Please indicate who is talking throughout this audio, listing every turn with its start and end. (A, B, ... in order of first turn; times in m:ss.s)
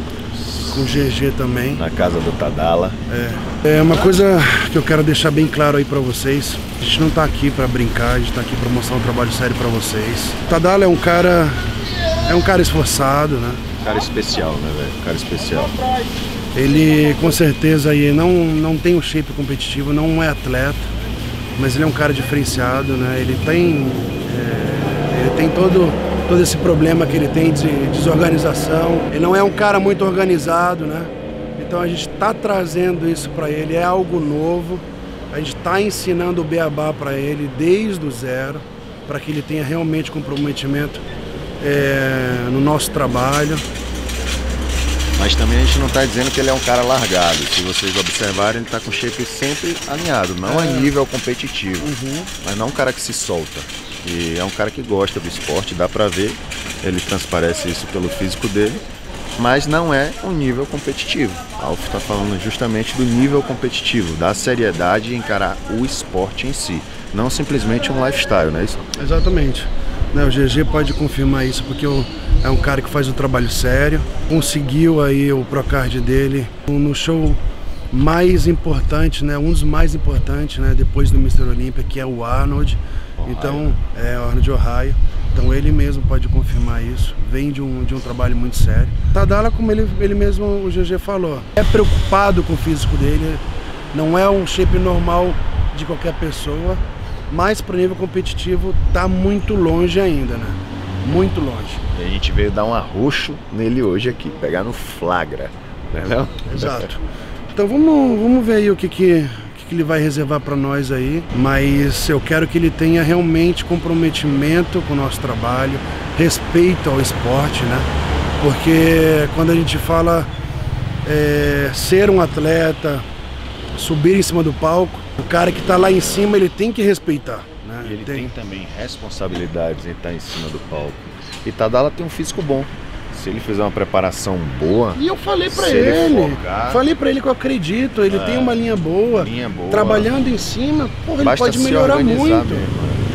0:00.3-0:00.9 A
0:00.6-0:01.8 B
0:01.8-0:03.0 A
0:03.1-0:13.6 B
0:13.8-0:15.9 A
0:16.6-0:20.9 B
0:21.6-0:41.0 B
0:41.6-0:43.6 B
0:45.2-0:58.8 A
0:50.5-0:50.9 B
0:51.8-0:52.3 B
0:59.4-1:08.8 A
1:09.0-1:17.4 B
1:17.9-1:33.4 B
1:23.2-1:23.8 A
1:33.9-1:41.8 B
1:41.9-1:46.9 A
1:46.5-1:47.0 B
1:47.5-1:57.9 B
1:58.4-2:00.3 B
2:01.0-2:03.0 B
2:03.8-2:08.3 B
2:07.8-2:16.8 A
2:15.0-2:22.7 B
2:18.1-2:20.1 A
2:21.2-2:23.0 A